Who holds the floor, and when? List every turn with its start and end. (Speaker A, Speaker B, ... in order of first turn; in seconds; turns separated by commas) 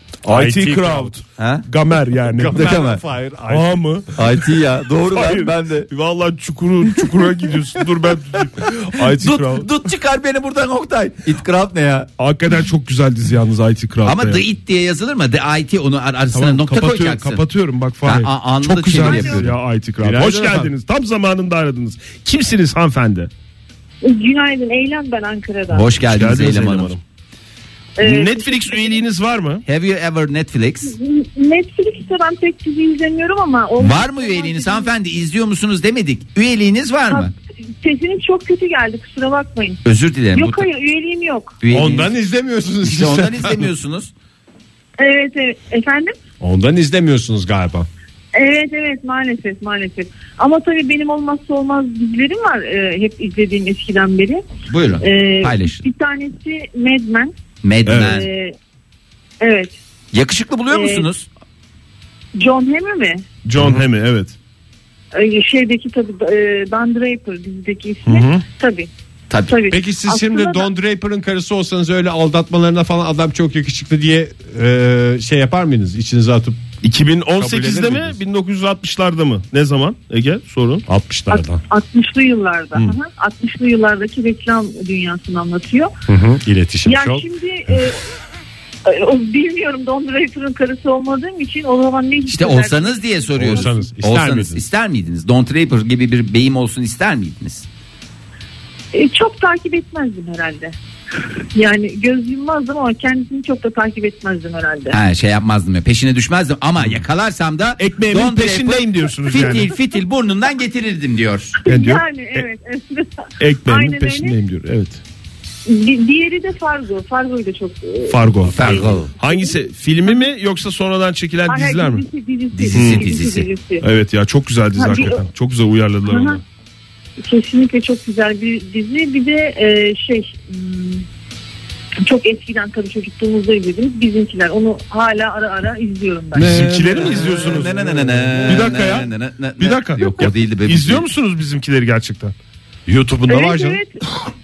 Speaker A: 0.2-1.1, Speaker B: 0.2-2.8, Speaker C: 1.4-1.6, Speaker A: 2.3-3.8, Speaker C: 2.6-3.0, Speaker B: 3.5-4.1, Speaker C: 4.2-5.9, Speaker B: 5.1-9.7, Speaker C: 8.6-12.1, Speaker B: 12.2-14.4, Speaker C: 14.1-17.4, Speaker B: 16.3-23.3, Speaker C: 18.0-19.5, Speaker D: 19.0-19.4, Speaker A: 20.0-20.7, Speaker D: 24.0-25.9, Speaker C: 25.7-27.0, Speaker B: 26.0-27.0, Speaker D: 28.0-29.0, Speaker B: 28.0-29.6, Speaker C: 29.6-30.9, Speaker D: 30.8-34.9, Speaker C: 33.8-37.3, Speaker D: 37.1-39.8, Speaker C: 39.8-40.7, Speaker D: 40.3-41.5, Speaker C: 41.6-42.1, Speaker A: 41.7-43.7, Speaker C: 42.9-44.1, Speaker D: 45.0-46.1, Speaker A: 46.4-47.9, Speaker D: 48.3-54.4, Speaker C: 54.7-55.8, Speaker D: 55.0-57.3, Speaker C: 57.6-58.3, Speaker B: 57.9-58.2, Speaker D: 58.0-58.5, Speaker D: 59.4-59.8, Speaker C: 60.1-61.3, Speaker D: 60.7-61.1, Speaker D: 62.3-63.2, Speaker B: 63.4-64.3, Speaker D: 65.1-68.9, Speaker B: 68.0-68.4, Speaker C: 69.3-69.6, Speaker D: 69.4-70.7, Speaker A: 69.7-76.7, Speaker B: 76.8-80.8, Speaker A: 77.3-78.2, Speaker A: 80.9-81.6, Speaker D: 81.3-85.9, Speaker A: 86.1-87.9, Speaker D: 86.8-88.0, Speaker D: 88.8-93.8, Speaker C: 92.3-97.7, Speaker A: 93.3-94.6, Speaker D: 98.9-100.7, Speaker D: 101.5-105.0, Speaker C: 104.9-111.6, Speaker B: 107.8-109.7, Speaker B: 111.7-112.5, Speaker D: 111.7-114.3, Speaker B: 113.4-115.0, Speaker D: 115.7-118.3, Speaker B: 118.1-122.0, Speaker C: 118.5-119.1, Speaker D: 119.2-120.2, Speaker D: 121.5-123.8, Speaker C: 122.5-123.5, Speaker B: 122.7-123.0, Speaker B: 123.8-126.4, Speaker D: 124.7-125.3, Speaker D: 126.0-126.4, Speaker D: 127.2-131.1, Speaker D: 132.0-136.5, Speaker A: 136.3-138.5, Speaker B: 136.4-137.8, Speaker C: 137.0-141.0, Speaker B: 138.4-142.3, Speaker A: 142.8-143.8, Speaker D: 143.3-143.9